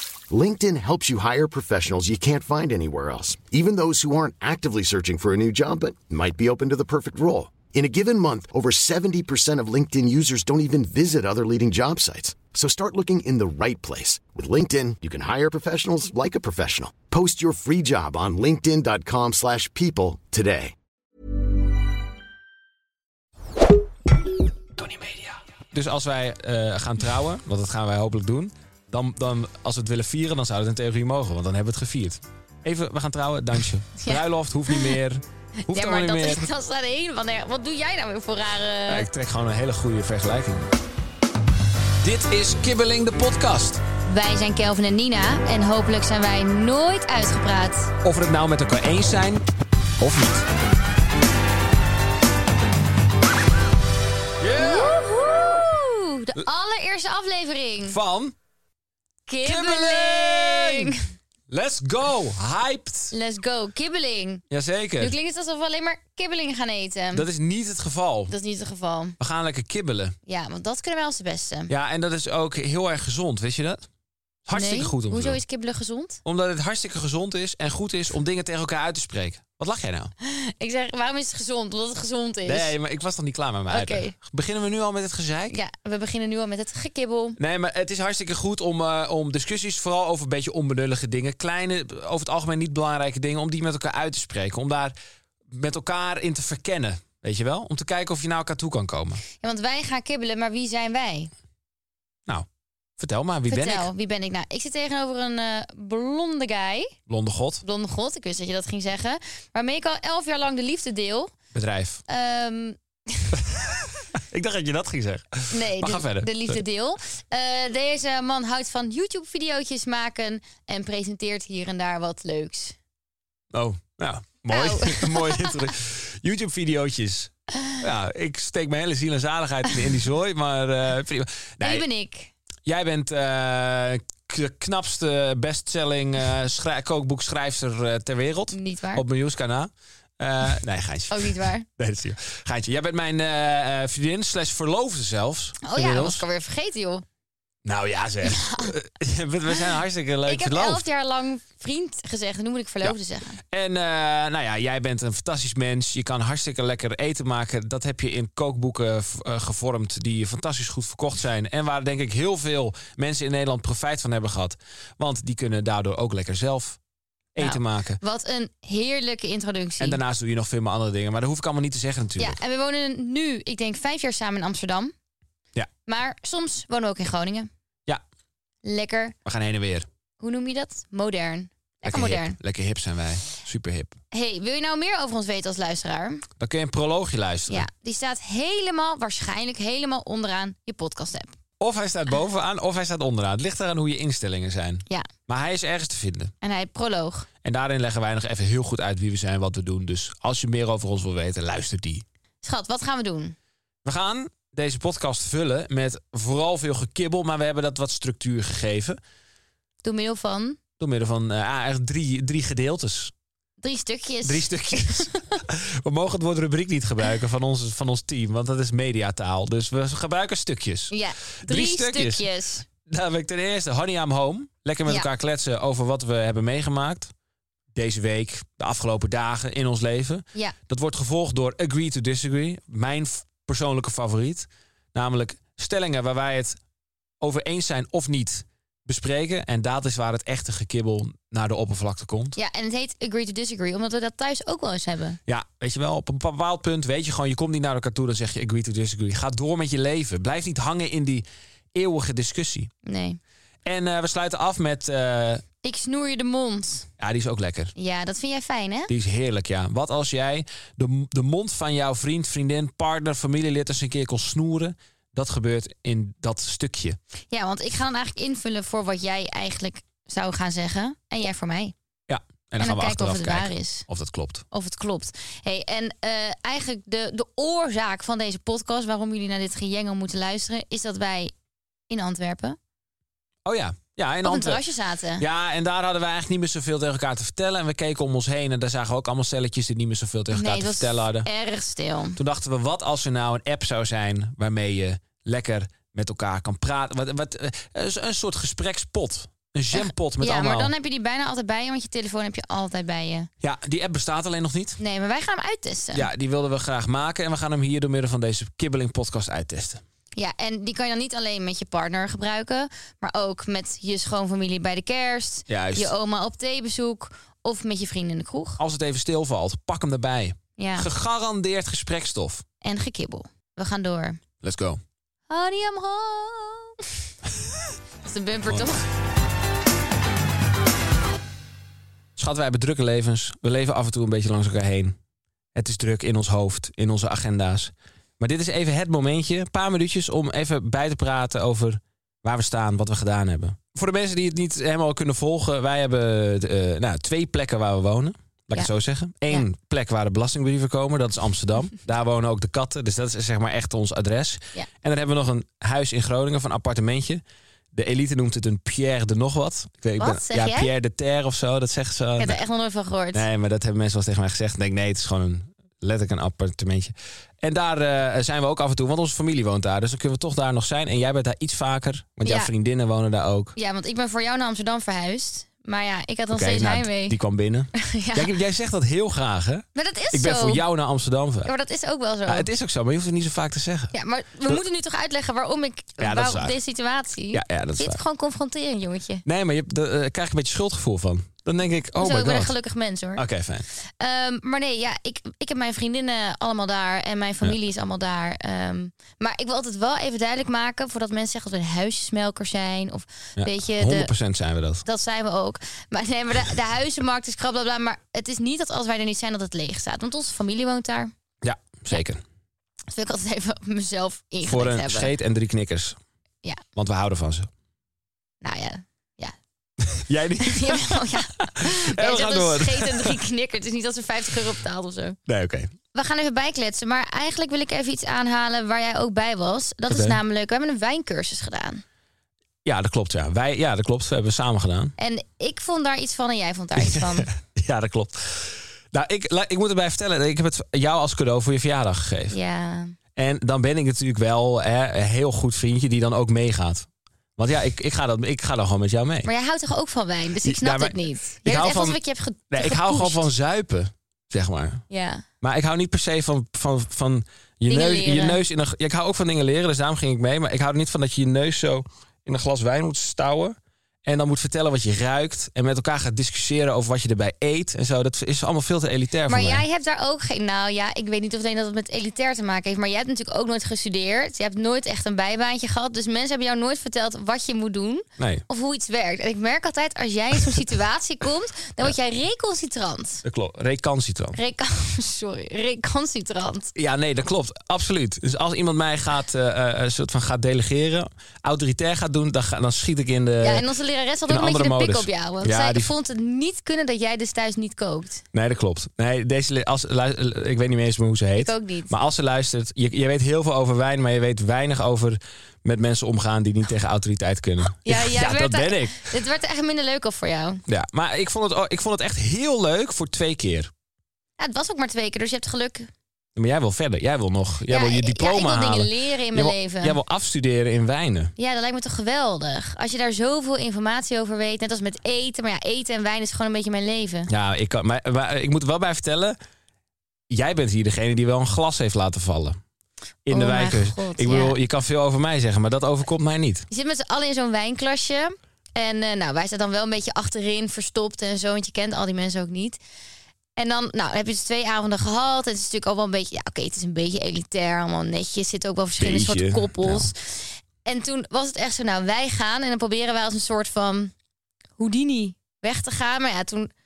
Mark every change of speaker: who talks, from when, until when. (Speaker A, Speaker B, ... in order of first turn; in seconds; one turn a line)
Speaker A: 0.3-20.7
Speaker B: 24.8-36.5
Speaker C: 34.0-35.0
Speaker C: 35.6-39.1
Speaker B: 38.9-40.7
Speaker B: 42.0-43.8
Speaker C: 44.1-47.9
Speaker B: 48.0-49.4
Speaker B: 50.0-50.5
Speaker B: 54.4-55.0
Speaker C: 54.6-58.0
Speaker B: 57.9-58.3
Speaker C: 59.3-61.0
Speaker B: 59.4-60.9
Speaker B: 61.5-63.1
Speaker C: 63.1-64.4
Speaker B: 64.5-65.1
Speaker C: 65.0-67.3
Speaker B: 67.1-68.3
Speaker C: 68.3-69.2
Speaker B: 69.2-70.2
Speaker C: 70.2-71.7
Speaker B: 71.7-73.9
Speaker B: 74.4-75.4
Speaker C: 74.5-76.2
Speaker B: 76.2-80.1
Speaker C: 80.2-82.7
Speaker B: 82.5-85.6
Speaker C: 83.7-84.1
Speaker C: 85.5-87.4
Speaker B: 87.4-94.9
Speaker B: 95.5-99.2
Speaker C: 99.3-101.3
Speaker B: 103.0-103.9
Speaker C: 103.5-106.9
Speaker B: 107.1-107.6
Speaker C: 107.6-111.3
Speaker B: 111.5-112.0
Speaker C: 112.1-113.4
Speaker B: 113.3-116.6
Speaker C: 115.5-122.8
Speaker B: 123.5-131.9
Speaker C: 124.5-125.5
Speaker C: 131.6-132.3
Speaker B: 132.6-146.2
Speaker C: 138.5-139.0
Speaker C: 141.1-141.7
Speaker C: 145.6-147.0
Speaker B: 147.6-150.8
Speaker C: 148.2-148.7
Speaker C: 150.2-153.4
Speaker B: 153.5-166.8
Speaker B: 167.3-168.0
Speaker C: 167.4-170.0
Speaker B: 169.8-172.4
Speaker C: 172.2-174.9
Speaker C: 175.8-177.5
Speaker C: 178.6-179.1
Speaker B: 179.2-179.9
Speaker C: 180.2-182.3
Speaker B: 181.8-184.0
Speaker C: 184.1-186.2
Speaker B: 186.4-187.7
Speaker C: 187.5-191.3
Speaker B: 191.6-196.3
Speaker C: 196.4-197.3
Speaker B: 197.4-202.0
Speaker C: 202.4-203.3
Speaker B: 203.8-209.0
Speaker C: 209.8-210.6
Speaker B: 210.8-213.1
Speaker C: 213.6-215.3
Speaker B: 214.2-222.2
Speaker C: 220.9-222.7
Speaker B: 222.8-227.1
Speaker B: 227.7-236.6
Speaker B: 237.2-242.3
Speaker C: 242.3-245.2
Speaker B: 245.3-252.7
Speaker C: 252.8-253.2
Speaker B: 253.6-255.4
Speaker C: 255.6-256.9
Speaker B: 257.0-257.7
Speaker C: 257.7-258.9
Speaker B: 258.9-267.0
Speaker C: 267.3-271.7
Speaker B: 272.1-274.4
Speaker C: 272.6-273.9
Speaker C: 274.5-281.3
Speaker C: 281.9-282.6
Speaker B: 283.4-284.6
Speaker C: 284.2-285.2
Speaker B: 285.2-291.3
Speaker C: 290.3-292.2
Speaker B: 292.2-300.7
Speaker C: 299.7-303.3
Speaker B: 303.4-304.8
Speaker C: 304.8-306.1
Speaker B: 305.9-309.8
Speaker C: 310.1-318.6
Speaker B: 315.5-315.9
Speaker B: 318.6-322.4
Speaker C: 320.6-320.9
Speaker C: 322.6-324.2
Speaker B: 324.4-324.8
Speaker C: 325.3-326.9
Speaker C: 328.0-328.9
Speaker B: 332.1-335.0
Speaker B: 335.5-357.2
Speaker B: 357.7-362.4
Speaker C: 360.0-360.7
Speaker C: 362.2-363.2
Speaker B: 363.1-373.5
Speaker C: 372.2-372.5
Speaker C: 373.6-377.2
Speaker B: 376.3-381.5
Speaker C: 377.7-378.3
Speaker C: 379.7-380.6
Speaker C: 381.4-382.5
Speaker B: 382.3-383.9
Speaker C: 383.9-389.2
Speaker B: 386.0-386.6
Speaker B: 387.3-388.0
Speaker B: 389.2-392.5
Speaker C: 392.0-393.2
Speaker B: 393.1-393.7
Speaker C: 393.8-404.1
Speaker B: 403.4-404.8
Speaker C: 404.8-411.1
Speaker B: 411.4-412.2
Speaker C: 412.9-415.1
Speaker B: 414.4-416.0
Speaker B: 416.8-417.5
Speaker C: 418.4-419.3
Speaker B: 419.8-423.1
Speaker C: 420.4-425.2
Speaker B: 425.3-425.7
Speaker C: 425.9-431.8
Speaker B: 429.9-430.2
Speaker B: 432.6-434.9
Speaker C: 435.0-437.3
Speaker B: 436.8-442.4
Speaker C: 442.3-442.9
Speaker B: 443.1-449.3
Speaker C: 449.2-453.2
Speaker B: 450.4-452.0
Speaker B: 452.5-454.8
Speaker C: 454.9-455.2
Speaker B: 455.4-469.6
Speaker C: 457.7-458.4
Speaker C: 469.3-483.2
Speaker B: 478.2-478.4
Speaker B: 483.2-484.4
Speaker C: 484.3-486.7
Speaker B: 486.8-493.6
Speaker C: 493.4-498.2
Speaker B: 494.3-495.9
Speaker B: 498.3-509.1
Speaker C: 501.4-501.9
Speaker C: 507.8-510.6
Speaker B: 510.7-513.7
Speaker C: 514.4-515.9
Speaker B: 516.4-521.3
Speaker C: 517.7-520.0
Speaker C: 521.4-527.3
Speaker B: 527.3-529.4
Speaker B: 530.3-532.6
Speaker B: 533.2-536.6
Speaker C: 533.3-534.6
Speaker C: 536.7-542.8
Speaker C: 543.5-554.1
Speaker B: 549.0-550.1
Speaker C: 554.8-556.7